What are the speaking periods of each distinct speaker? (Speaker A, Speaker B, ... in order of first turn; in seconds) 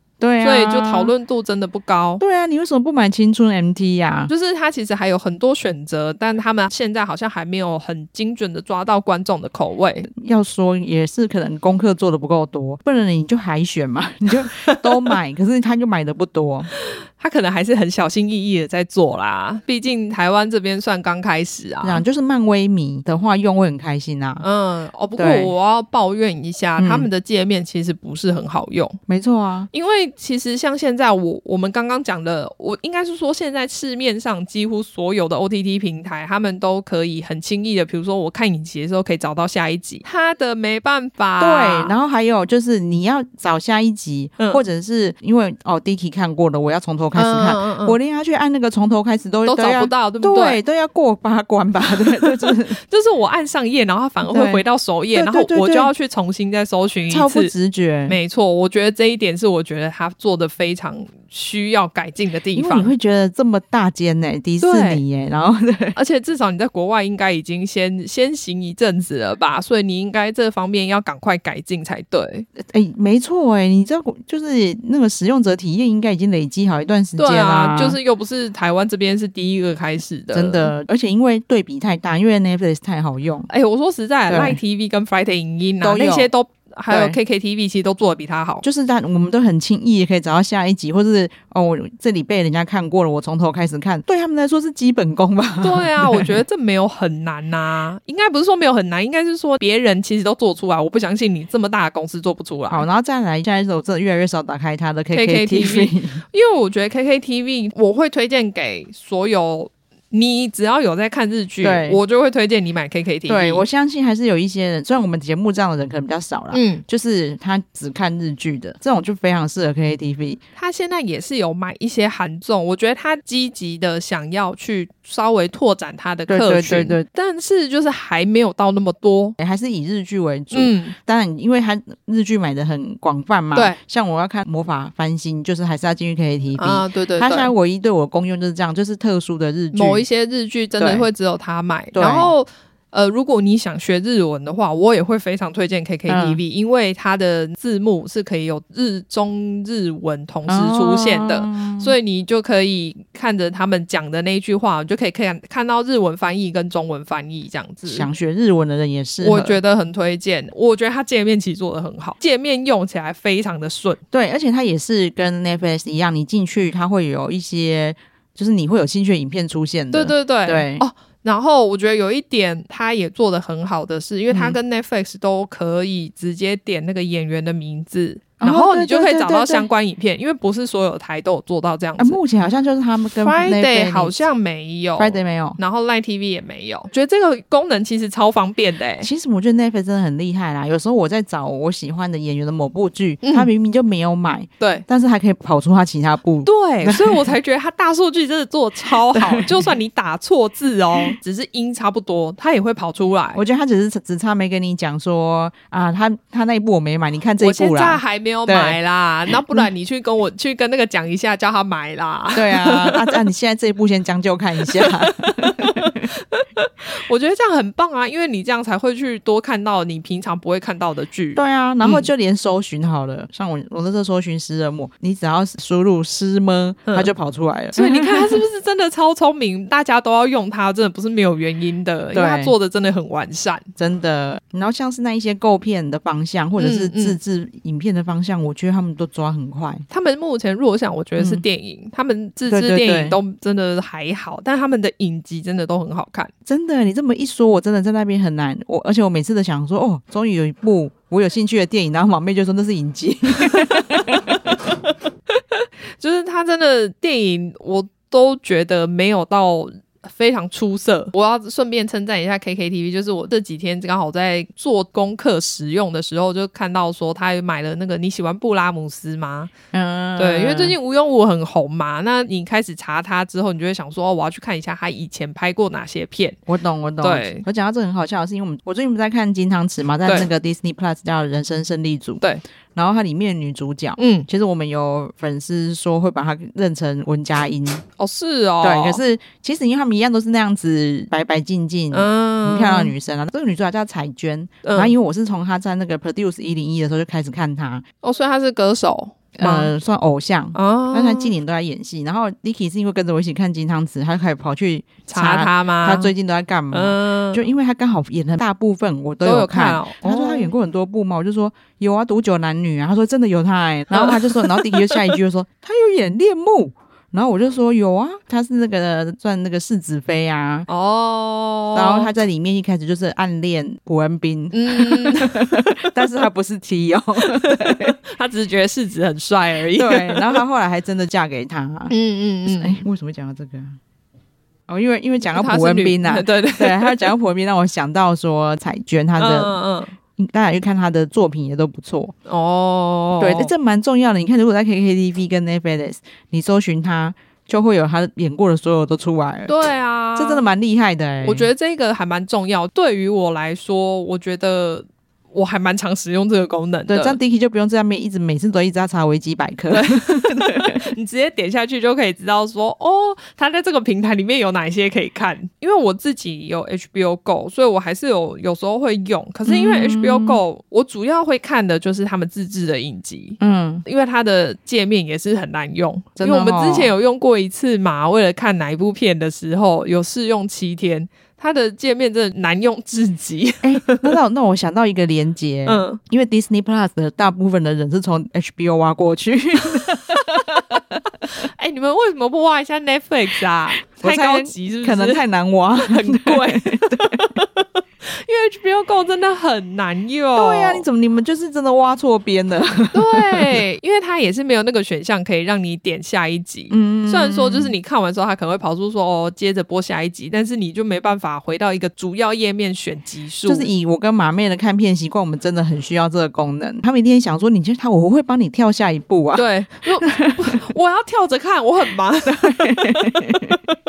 Speaker A: 0.2-1.1, 2.2-4.3, 10.1-16.7, 21.8-24.4, 25.2-25.5, 26.8-27.1, 29.1-29.7, 41.4-52.8, 54.3-54.6, 55.1-55.9, 57.1-58.2, 62.5-66.0, 72.6-78.0, 80.3-83.5, 84.3-84.6, 85.8-86.3, 86.9-87.2, 88.6-96.3, 102.7-106.2, 111.6-112.0, 113.3-120.4, 126.3-127.0, 129.4-140.0, 140.8-141.1, 141.9-142.3, 146.1-146.4, 150.5-151.9, 157.9-159.6, 164.1-170.8, 174.3-174.6, 178.4-179.7, 182.0-184.2, 185.0-185.6, 189.0-197.3, 199.1-199.7, 203.3-208.8, 209.3-209.7, 212.3-216.1, 221.3-228.4, 232.1-232.5, 233.8-239.8, 241.2-241.4, 242.5-243.2, 246.4-254.6, 269.7-270.7, 276.5-282.2, 282.7-287.8, 288.6-297.8, 299.4-320.7, 321.7-327.9, 329.8-331.9, 332.4-333.8, 334.7-339.6, 340.2-342.1, 343.2-349.5, 350.2-351.5, 356.9-360.8, 369.5-370.4, 373.4-373.8, 376.2-376.9, 383.6-391.0, 394.0-397.3, 400.4-403.6, 406.7-407.7, 413.4-419.5, 420.0-420.6, 422.2-423.6
Speaker B: 0.4-2.2, 4.3-10.1, 14.5-15.1, 16.8-22.0, 24.4-29.0, 29.7-41.9, 47.1-48.0, 49.5-50.6, 52.1-57.5, 58.1-62.9, 64.6-65.0, 65.9-72.5, 77.2-80.7, 83.5-88.6, 95.6-102.8, 105.1-113.6, 116.5-116.8, 120.5-129.3, 130.5-130.9, 136.6-137.5, 139.7-158.1, 159.2-164.0, 169.9-182.2, 183.2-189.1, 193.2-193.5, 194.6-194.8, 196.4-203.4, 207.4-213.2, 214.7-222.1, 227.7-233.7, 236.6-237.2, 239.9-246.3, 253.5-253.8, 255.3-269.5, 270.2-276.4, 277.0-277.4, 284.0-284.3, 288.0-289.0, 291.9-292.9, 294.6-294.9, 298.0-299.7, 300.5-301.3, 305.1-306.1, 306.7-307.4, 309.2-310.5, 313.9-315.1, 320.7-322.1, 324.5-325.9, 327.2-330.4, 331.9-332.8, 335.3-337.1, 339.2-339.9, 342.3-343.5, 349.5-350.4, 351.2-357.2, 359.7-384.1, 385.6-386.0, 391.2-395.2, 395.8-400.8, 402.9-413.7, 419.3-423.5